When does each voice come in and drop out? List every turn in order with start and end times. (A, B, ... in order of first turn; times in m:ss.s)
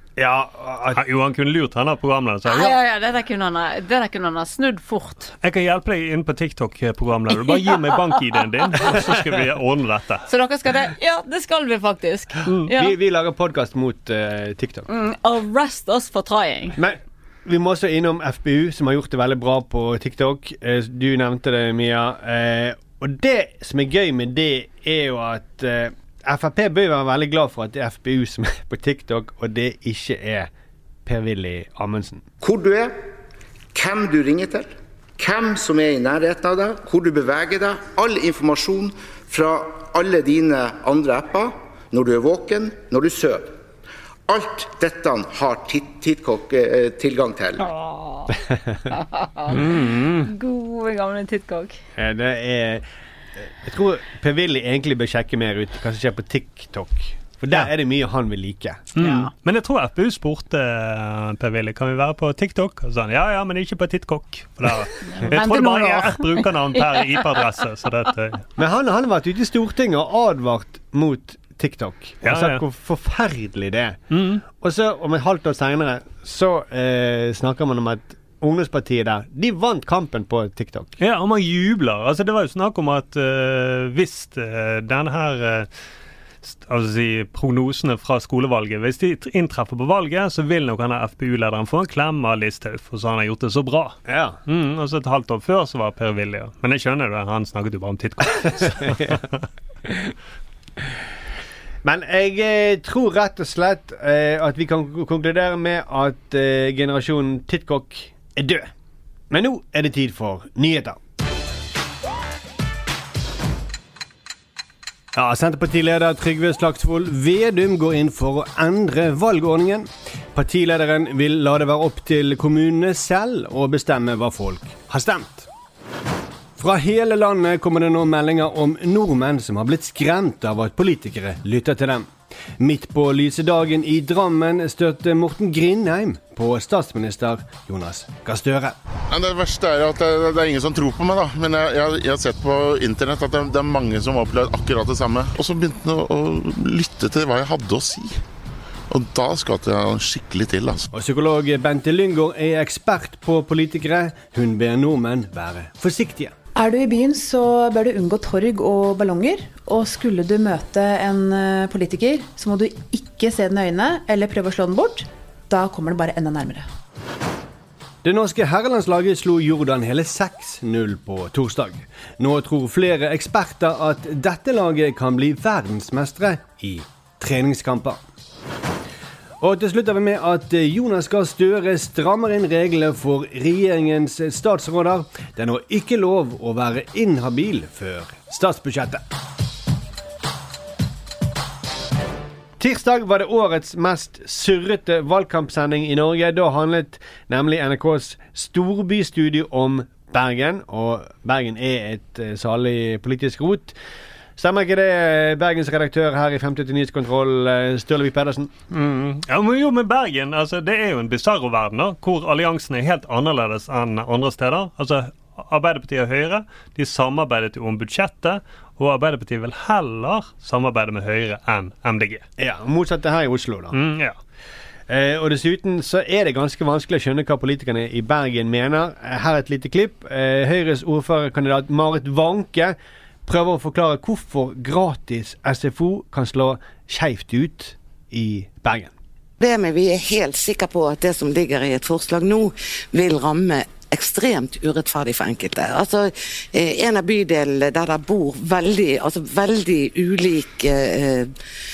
0:00.2-0:01.0 A
0:00.9-0:02.8 B
0:02.5-0:05.3 C
0:05.4-0:10.3 B
0:10.3-0:12.9 C
0:12.7-0:14.9 A
0:14.9-0:16.8 C
0:16.8-0:30.5 A
0:31.0-0:32.3 A
0:32.4-0:33.0 D
0:33.7-0:43.6 D
0:44.3-0:47.6 D
0:47.6-0:48.3 C
0:48.9-0:51.8 C
0:52.0-0:52.8 A
0:53.4-0:58.9 A
0:59.0-0:59.3 C
0:59.0-1:08.4 B
1:05.0-1:07.0 C
1:08.6-1:21.0 A
1:12.2-1:12.6 B
1:14.1-1:14.4 B
1:21.0-1:25.7 B
1:26.5-1:39.4 B
1:34.1-1:34.4 A
1:38.8-1:39.1 A
1:41.8-1:48.7 A
1:49.3-1:51.0 A
1:55.1-2:05.5 A
2:06.6-2:18.8 A
2:19.1-2:28.2 E
2:28.9-2:30.9 E
2:30.9-2:36.4 A
2:36.6-2:46.7 F
2:48.0-2:58.0 A
2:59.4-3:09.0 A
3:12.6-3:23.8 A
3:24.4-3:28.7 A
3:28.7-3:42.2 B
3:42.4-3:43.8 A
3:43.7-3:44.2 B
3:44.9-3:58.9 A
3:59.4-4:11.3 G